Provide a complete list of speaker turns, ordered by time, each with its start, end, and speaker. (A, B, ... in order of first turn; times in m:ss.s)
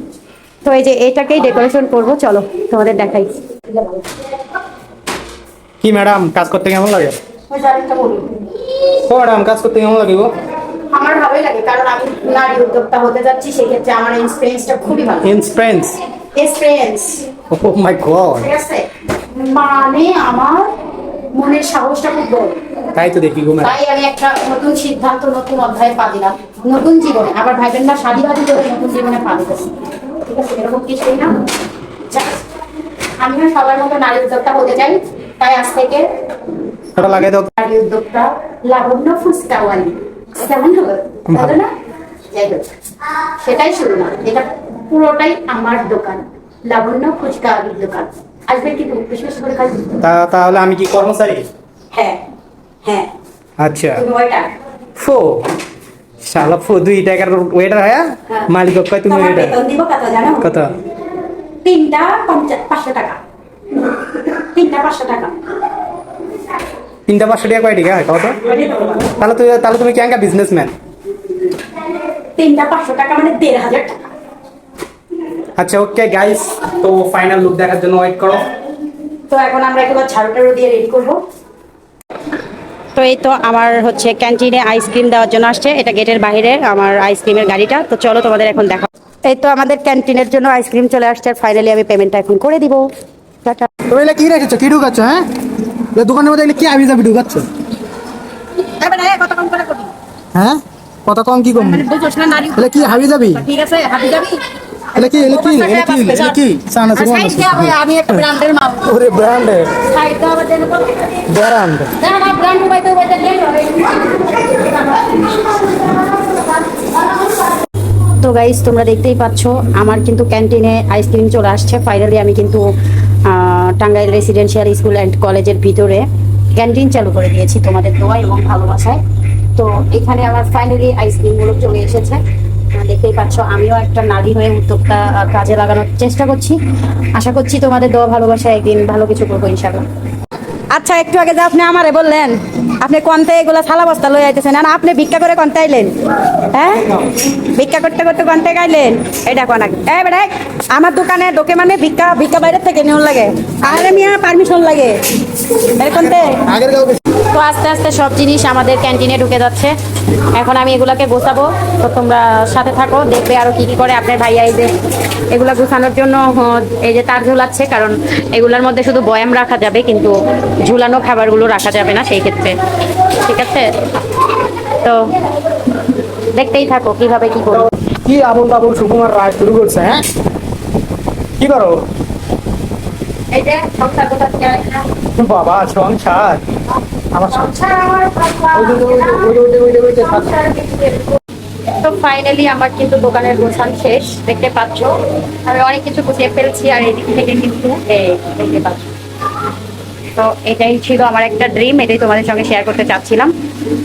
0:00.6-0:03.3 A
0:05.8-0:07.2 B
0:07.5-0:08.3 A
0:09.1-0:10.3 B
0:10.9-0:15.3 A
0:15.2-0:16.0 B
0:16.4-0:17.3 A
0:17.5-0:18.5 B
0:18.4-0:18.8 A
0:19.4-0:20.7 A
0:21.4-0:22.6 A
0:22.9-0:23.8 B
0:23.6-0:31.4 A
0:32.1-0:32.4 A
0:33.2-0:36.1 A
0:37.0-0:37.5 B
0:37.6-0:41.7 A
0:41.3-0:41.5 B
0:42.3-0:50.0 A
0:50.0-0:51.5 B
0:51.9-0:52.2 A
0:52.8-0:53.1 A
0:53.6-0:54.0 B
0:54.0-0:54.5 A
0:55.0-0:55.4 B
0:56.2-0:59.6 B
0:59.1-1:00.6 A
1:00.4-1:00.7 B
1:01.6-1:03.2 A
1:04.4-1:05.3 A
1:07.1-1:10.7 B
1:12.4-1:14.0 A
1:15.6-1:18.5 B
1:19.3-1:21.2 A
1:23.0-1:32.9 A
1:33.4-1:33.7 A
1:33.9-1:35.3 C
1:35.9-1:37.5 C
1:38.8-1:39.9 A
1:40.3-1:41.8 C
1:41.5-1:44.4 A
1:42.6-1:43.4 C
1:44.9-1:49.0 A
1:45.0-1:47.8 C
1:46.5-1:46.8 B
1:48.9-1:49.7 B
1:49.8-1:51.2 A
1:51.3-1:51.9 B
1:52.0-1:55.3 A
1:58.2-2:02.6 A
2:03.2-2:09.0 A
2:09.6-2:12.2 A
2:12.7-2:16.6 A
2:17.1-2:19.8 A
2:20.7-2:25.9 A
2:26.4-2:35.0 A
2:35.8-2:36.6 A
2:36.6-2:37.0 C
2:37.2-2:39.7 A
2:40.4-2:44.7 A
2:45.3-2:50.1 A
2:50.6-2:52.6 A
2:53.1-2:53.8 A
2:54.6-2:55.0 A
2:56.3-2:57.7 A
2:57.5-3:00.0 B
3:01.4-3:01.8 B
3:03.3-3:04.8 A
3:05.2-3:06.4 B
3:07.1-3:07.5 B
3:07.4-3:09.2 A
3:08.5-3:10.4 B
3:10.2-3:11.2 A
3:11.8-3:18.9 A
3:20.2-3:23.3 A